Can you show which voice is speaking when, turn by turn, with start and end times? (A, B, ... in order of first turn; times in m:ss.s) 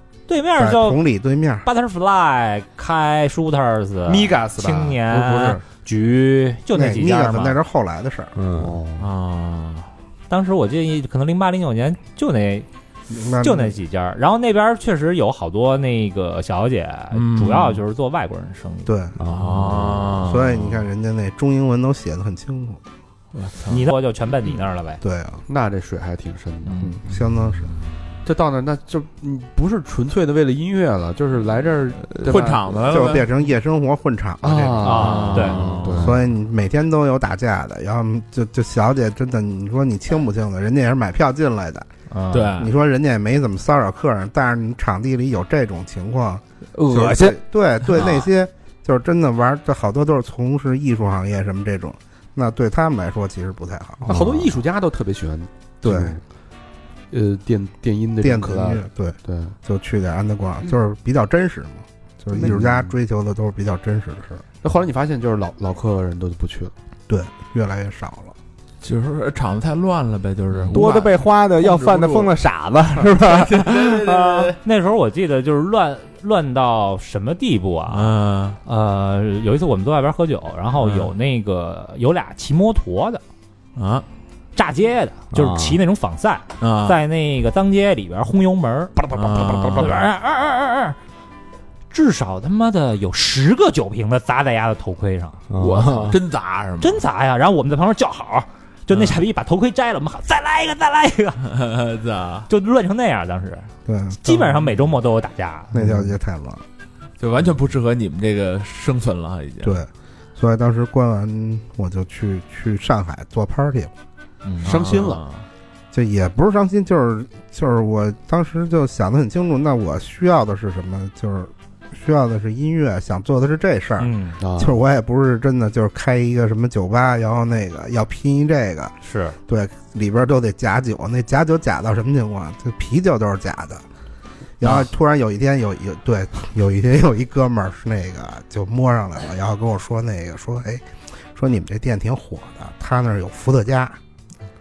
0:00.3-0:01.0 A
0:00.6-0:01.7 B
0:01.6-0:07.6 A
0:04.1-0:05.6 C
0:06.7-0:08.3 B
0:08.4-0:08.8 D
0:08.6-0:09.1 C
0:09.0-0:09.9 E
0:10.3-0:12.7 A
0:13.1-0:13.8 B
0:13.4-0:18.9 A
0:17.1-0:17.8 E
0:18.8-0:19.2 B
0:19.2-0:20.2 D
0:19.3-0:20.8 E
0:20.2-0:22.8 B
0:23.3-0:23.9 E
0:23.7-0:25.0 A
0:25.0-0:25.4 B
0:25.5-0:26.8 C
0:26.8-0:27.7 B
0:28.2-0:32.9 C
0:32.2-0:33.3 E
0:32.9-0:35.1 B
0:34.4-0:36.2 C
0:34.8-0:35.6 A
0:35.0-0:36.2 E
0:35.9-0:41.9 B
0:42.1-0:42.5 A
0:42.3-0:42.7 E
0:42.6-0:54.2 B
0:46.7-0:47.4 D
0:54.0-0:56.2 C
0:55.8-0:56.2 B
0:57.1-0:59.5 C
0:58.2-1:04.4 B
1:02.4-1:02.9 C
1:04.6-1:06.7 C
1:07.1-1:08.3 B
1:08.8-1:12.3 E
1:10.7-1:14.5 D
1:13.1-1:14.6 E
1:14.6-1:18.1 A
1:17.9-1:18.6 E
1:18.6-1:23.2 A
1:20.8-1:21.1 E
1:23.8-1:24.0 E
1:24.6-1:29.1 A
1:25.3-1:25.8 D
1:26.6-1:27.0 E
1:29.1-1:30.1 E
1:29.6-1:31.0 A
1:31.9-1:35.4 A
1:35.5-1:36.2 D
1:35.6-1:37.0 E
1:36.8-1:41.4 A
1:38.9-1:39.2 E
1:41.4-1:42.5 E
1:42.5-1:43.7 A
1:43.8-1:44.3 B
1:44.2-1:45.7 A
1:45.7-1:46.6 B
1:47.2-1:49.8 E
1:49.6-1:53.9 B
1:54.4-1:54.7 A
1:54.6-1:55.4 E
1:54.6-1:55.2 C
1:55.9-2:08.9 B
2:04.0-2:04.4 A
2:04.4-2:04.8 C
2:09.0-2:09.4 A
2:09.5-2:13.8 B
2:14.6-2:24.0 B